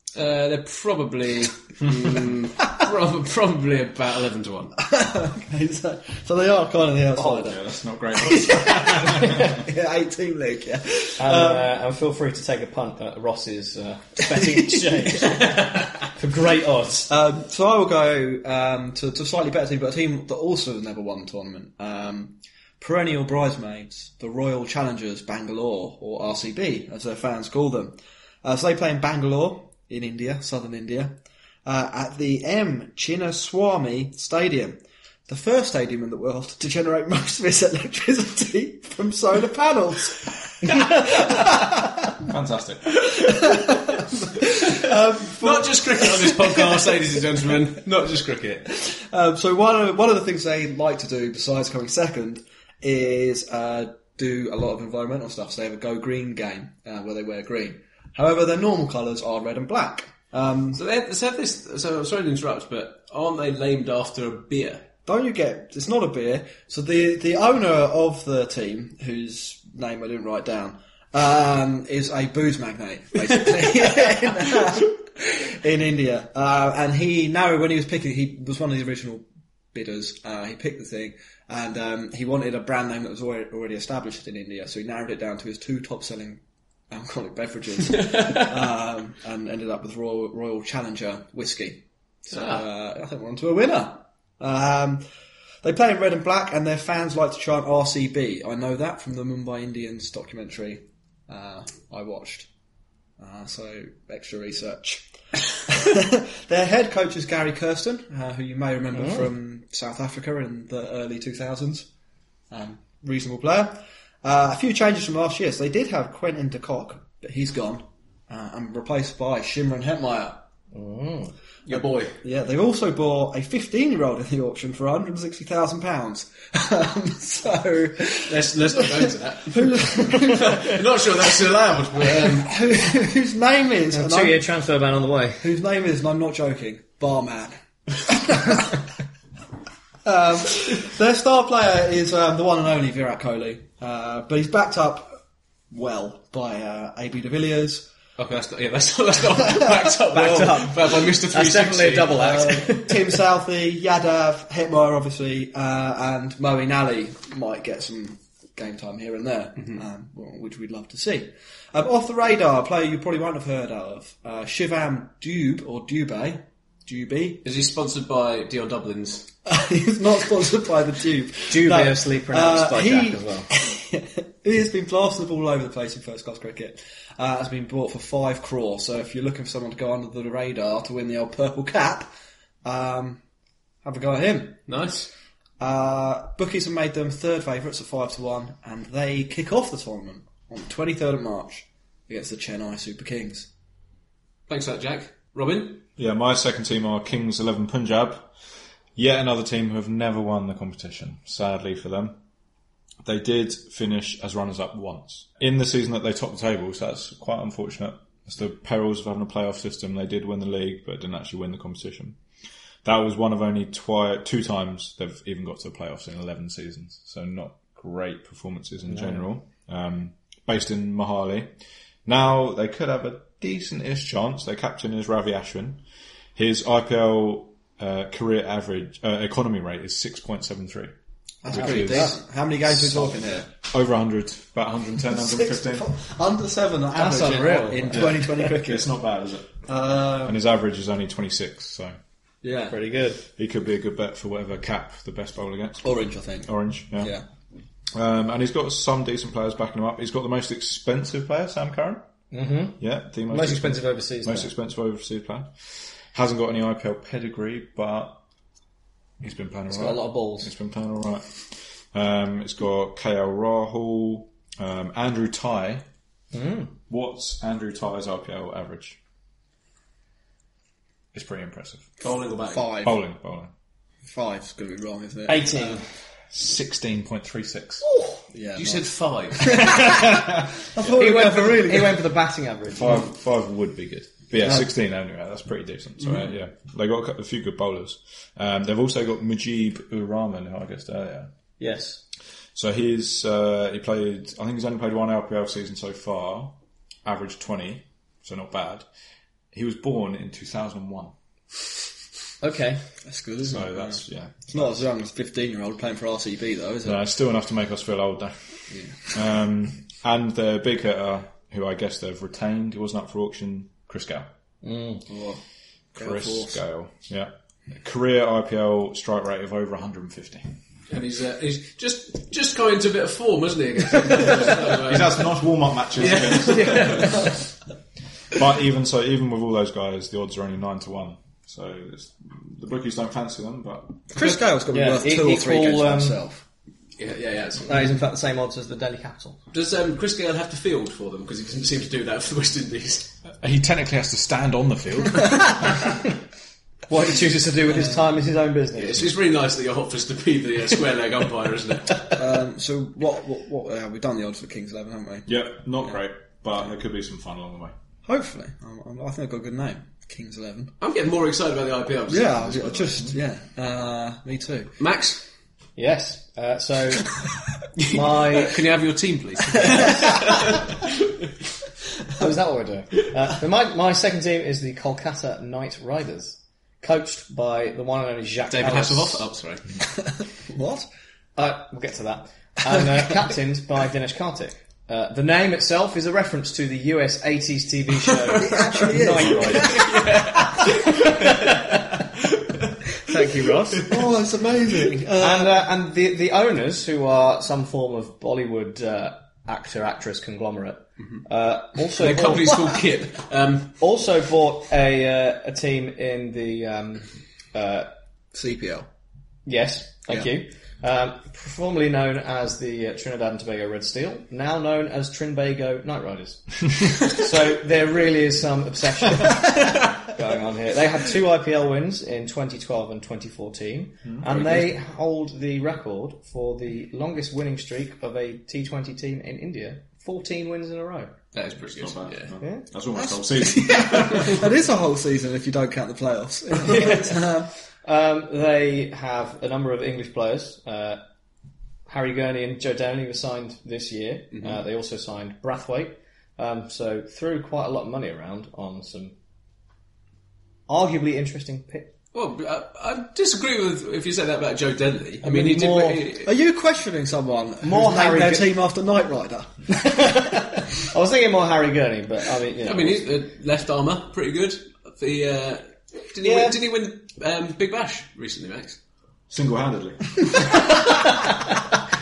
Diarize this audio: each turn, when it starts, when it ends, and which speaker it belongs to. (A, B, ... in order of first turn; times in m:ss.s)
0:00.1-0:04.8 A
0:04.8-0:07.6 B
0:07.1-0:09.6 C
0:08.2-0:11.7 B
0:11.2-0:17.1 D
0:14.2-0:15.3 B
0:17.1-0:41.9 B
0:41.5-0:43.4 C
0:43.1-0:47.2 B
0:45.4-0:48.7 A
0:48.8-1:00.8 B
1:00.7-1:04.8 A
1:05.0-1:35.0 B
1:32.3-1:32.6 A
1:35.6-1:42.5 B
1:43.2-1:51.9 B
1:48.9-1:49.3 D
1:52.5-2:00.4 B
2:00.7-2:01.3 D
2:01.6-2:02.2 A
2:01.7-2:10.7 B
2:08.2-2:12.6 A
2:12.1-2:14.4 B
2:13.9-2:15.5 D
2:15.4-2:18.8 B
2:20.0-2:27.9 B
2:28.2-2:32.3 A
2:30.1-2:33.1 D
2:32.2-2:47.4 B
2:47.4-2:49.3 A
2:49.4-3:02.1 B
2:51.5-2:53.5 D
3:02.6-3:03.2 B
3:03.8-3:04.6 B
3:04.7-3:05.1 A
3:05.6-3:13.5 B
3:14.5-3:15.8 A
3:16.0-3:18.3 C
3:19.0-3:22.2 C
3:23.0-3:32.2 C
3:32.8-3:41.5 C
3:38.9-3:39.2 D
3:42.0-3:45.8 C
3:46.3-3:50.9 C
3:51.4-3:53.5 B
3:51.4-3:52.2 C
3:51.5-3:52.1 D
3:52.7-3:55.9 C
3:55.1-3:58.9 B
3:56.9-3:58.3 D
3:58.0-3:59.5 C
3:59.6-4:00.4 B
4:00.2-4:02.0 C
4:02.4-4:02.8 B
4:02.7-4:03.2 D
4:03.3-4:07.2 C
4:05.8-4:07.2 B
4:07.9-4:12.1 C
4:12.3-4:14.5 D
4:12.8-4:18.2 C
4:19.2-4:25.8 C
4:19.7-4:20.5 D
4:26.3-4:26.7 D
4:26.9-4:29.0 C
4:31.1-4:31.9 C
4:32.0-4:32.8 A
4:32.5-4:33.0 B
4:32.7-4:33.5 C
4:34.0-4:35.5 B
4:35.3-4:35.8 D
4:36.3-4:37.8 C
4:37.8-4:38.2 D
4:38.3-4:38.8 B
4:38.5-4:39.7 A
4:39.4-4:40.2 B
4:39.7-4:40.1 D
4:40.7-4:42.0 B
4:40.9-4:43.0 D
4:42.7-4:51.3 C
4:44.4-4:44.6 B
4:51.6-4:52.0 D
4:52.5-4:58.8 C
4:59.5-5:01.1 C
5:02.4-5:02.8 D
5:03.0-5:07.0 B
5:03.4-5:04.7 C
5:06.8-5:14.3 C
5:14.6-5:15.0 D
5:15.1-5:15.4 B
5:15.9-5:16.6 B
5:15.9-5:20.5 C
5:20.9-5:27.3 A
5:24.6-5:27.3 C
5:26.6-5:26.8 D
5:28.3-5:34.0 C
5:34.1-5:36.4 B
5:34.7-5:36.2 D
5:37.0-5:37.9 A
5:37.6-5:39.4 D
5:39.5-5:43.1 A
5:43.3-5:45.8 C
5:46.9-5:49.1 D
5:48.8-5:52.1 A
5:52.2-5:55.9 B
5:55.3-5:57.7 C
5:58.0-6:00.7 B
6:00.8-6:03.1 A
6:02.1-6:04.7 B
6:04.8-6:05.2 A
6:05.8-6:07.1 D
6:07.8-6:08.6 D
6:07.8-6:10.7 A
6:12.2-6:19.2 D
6:18.5-6:19.7 A
6:20.4-6:20.9 B
6:21.4-6:29.8 D
6:28.4-6:30.0 B
6:29.6-6:32.0 A
6:32.7-6:34.0 A
6:33.2-6:33.8 D
6:33.8-6:35.5 B
6:35.2-6:42.6 D
6:42.0-6:43.8 A
6:43.8-6:47.9 D
6:48.3-6:48.9 B
6:49.4-7:11.1 D
7:04.0-7:04.7 C
7:11.3-7:12.3 A
7:11.7-7:14.4 C
7:12.4-7:12.6 D
7:12.9-7:17.5 B
7:16.6-7:17.0 D
7:17.8-7:21.0 D
7:21.9-7:29.2 D
7:30.7-7:31.9 D
7:32.1-7:36.3 A
7:35.2-7:36.0 D
7:36.2-7:39.9 B
7:37.6-7:38.6 D
7:39.8-7:43.1 D
7:42.6-7:48.8 A
7:46.2-7:46.6 D
7:49.3-7:50.5 C
7:50.5-7:51.5 D